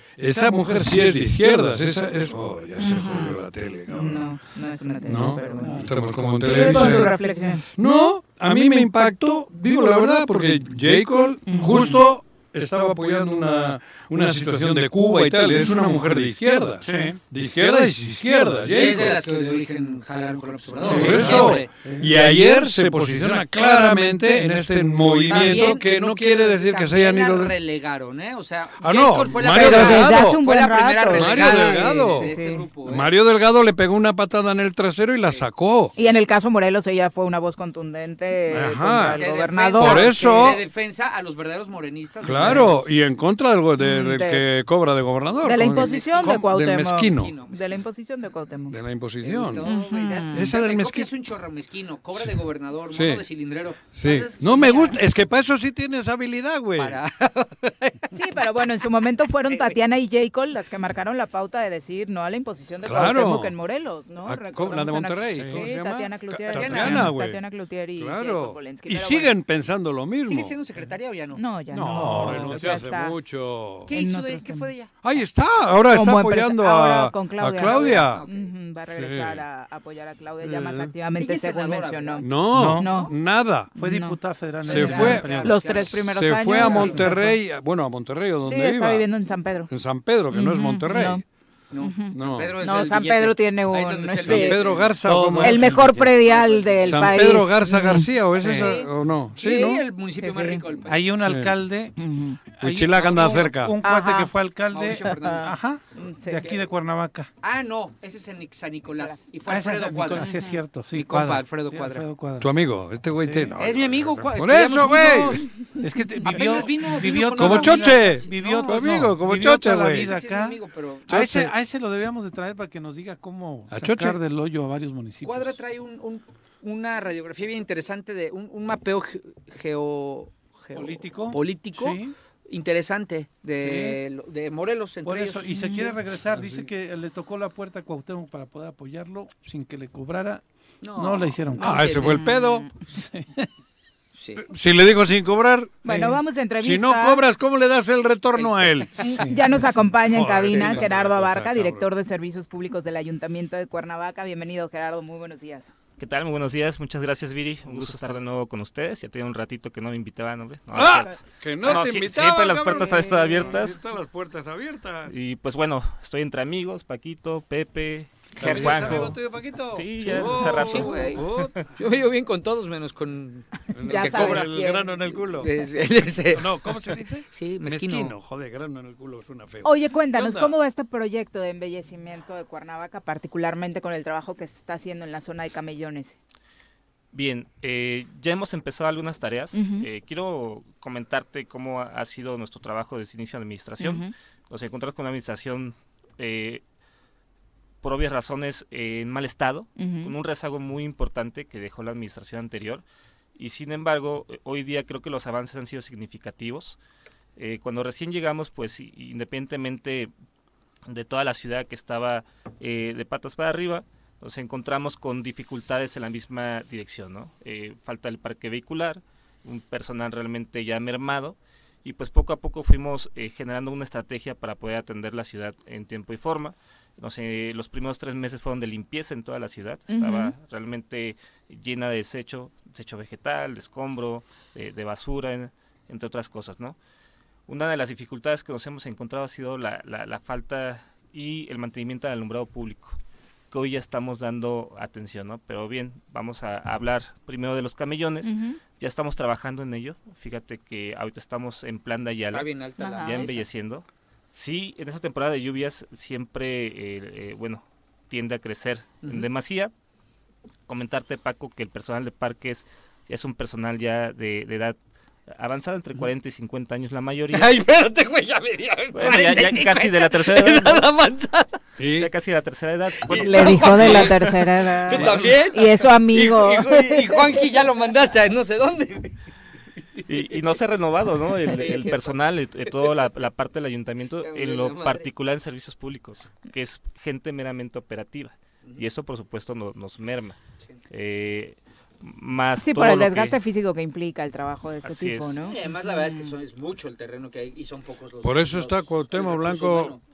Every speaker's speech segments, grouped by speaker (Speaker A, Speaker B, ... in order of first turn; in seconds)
Speaker A: 0.2-4.3, 5.0-7.2, 7.8-19.2, 20.8-27.5, 28.8-30.4, 31.1-32.3, 32.9-36.0, 38.5-40.6, 42.2-47.4, 48.7-49.7, 50.3-51.1, 52.1-53.3, 53.8-57.0, 62.8-63.6, 64.2-67.4, 68.0-70.6, 71.7-73.9, 75.0-78.3, 78.9-79.4, 80.4-80.9, 82.2-83.7, 84.7-89.1, 89.7-91.2, 92.1-92.5, 94.2-96.0, 96.8-99.8, 101.2-101.5, 102.6-103.8, 112.4-115.4, 117.3-120.1, 121.1-121.5, 123.7-124.2, 136.4-136.6, 141.6-142.7, 144.4-145.8, 146.6-149.2, 150.0-151.9, 157.7-158.1, 160.7-165.2, 168.3-171.6, 173.7-175.5, 176.3-180.5, 271.8-272.1, 298.2-300.0
Speaker B: 2.8-3.4, 3.9-5.9, 6.4-7.7, 11.5-11.9, 29.4-32.7, 36.0-40.3, 43.8-44.5, 45.4-48.8, 49.6-50.5, 58.1-69.3, 71.3-73.2, 73.9-74.7, 75.9-83.1, 83.8-84.2, 84.8-87.3, 88.4-89.7, 90.3-91.2, 91.8-94.7, 95.4-98.8, 100.2-100.6, 102.0-102.4, 103.8-104.3, 105.1-106.5, 110.2-110.6, 116.2-116.4, 135.5-135.9, 142.1-142.6, 145.8-147.2, 149.0-155.7, 162.6-163.6, 173.9-175.2, 179.6-186.2, 189.5-189.9, 193.8-194.1, 199.8-200.2, 229.9-230.3, 248.2-248.6, 252.8-253.3, 273.1-277.4, 292.6-296.3
Speaker C: 16.9-17.1, 21.0-21.5, 82.5-82.9, 83.8-85.6, 95.0-96.2, 98.4-98.7, 100.9-102.0, 102.6-107.3, 109.5-112.5, 113.2-113.6, 115.8-125.6, 130.7-132.1, 133.6-134.0, 135.0-140.4, 141.0-142.0, 142.9-143.5, 145.9-146.2, 149.2-149.5
Speaker D: 18.7-21.7, 25.2-33.1, 39.1-42.9, 45.6-46.5, 47.1-47.8, 49.2-55.0, 56.8-58.5, 59.5-59.8, 66.5-67.2, 70.2-71.4, 72.2-72.6, 73.9-75.2, 77.5-78.5, 81.2-83.0, 84.7-86.0, 86.5-87.3, 91.7-95.0, 96.2-97.2, 98.5-101.1, 103.0-103.5, 104.7-105.6, 107.4-110.4, 110.9-112.1, 113.6-115.5, 116.2-119.1, 119.9-121.2, 125.2-135.6, 140.8-142.6, 144.2-144.4, 148.3-149.1, 150.5-150.9, 168.5-168.8, 170.3-178.2, 252.3-253.5, 259.0-259.3, 267.3-271.6, 273.0-274.2, 274.8-279.2, 281.4-282.2, 284.2-285.1, 295.4-300.0
Speaker E: 156.0-163.8, 165.1-169.2, 169.7-171.6, 187.1-196.6, 197.8-202.8, 203.4-206.8, 207.4-210.1, 210.9-236.8, 237.5-243.0, 243.5-259.7, 260.7-264.8, 265.3-267.6, 268.9-270.9, 271.9-274.5, 280.1-290.4, 290.9-293.4, 294.8-295.4